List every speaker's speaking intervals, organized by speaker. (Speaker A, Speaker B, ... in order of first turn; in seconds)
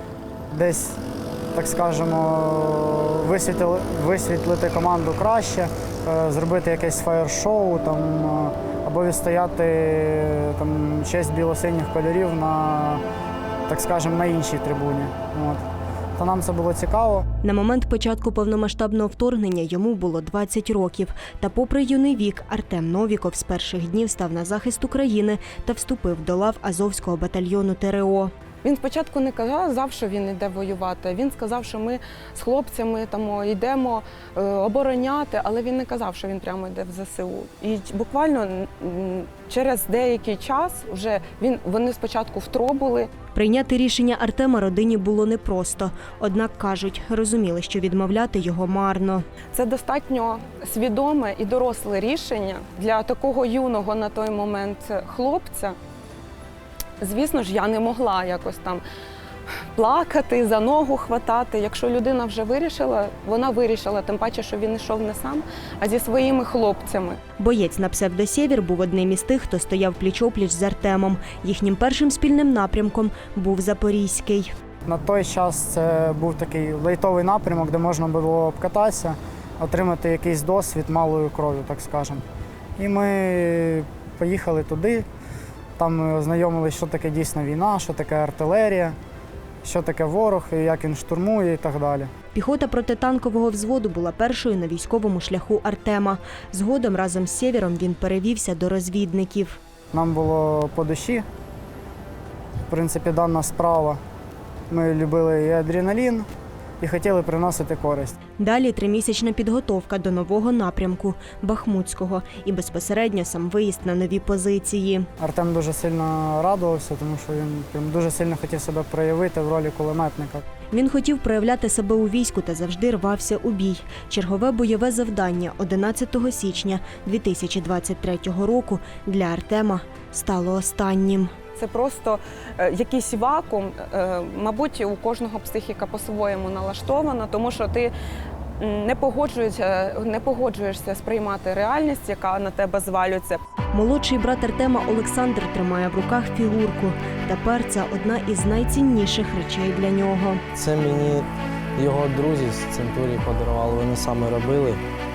Speaker A: 0.5-1.0, 1.5-13.0, 13.7-15.6, 16.2-17.2, 74.8-82.2, 82.8-85.0, 85.8-89.0, 89.6-92.1, 99.9-101.2, 102.7-104.0, 104.7-106.3, 106.8-108.2, 115.2-120.4
Speaker B: 17.4-28.3, 43.3-49.2, 67.4-74.5, 92.3-99.6, 108.4-115.1, 120.7-131.3, 143.7-150.4
Speaker C: 28.6-43.1, 49.5-55.8, 57.0-58.8, 59.8-67.2, 131.5-137.9, 138.6-143.4
Speaker D: 150.5-154.8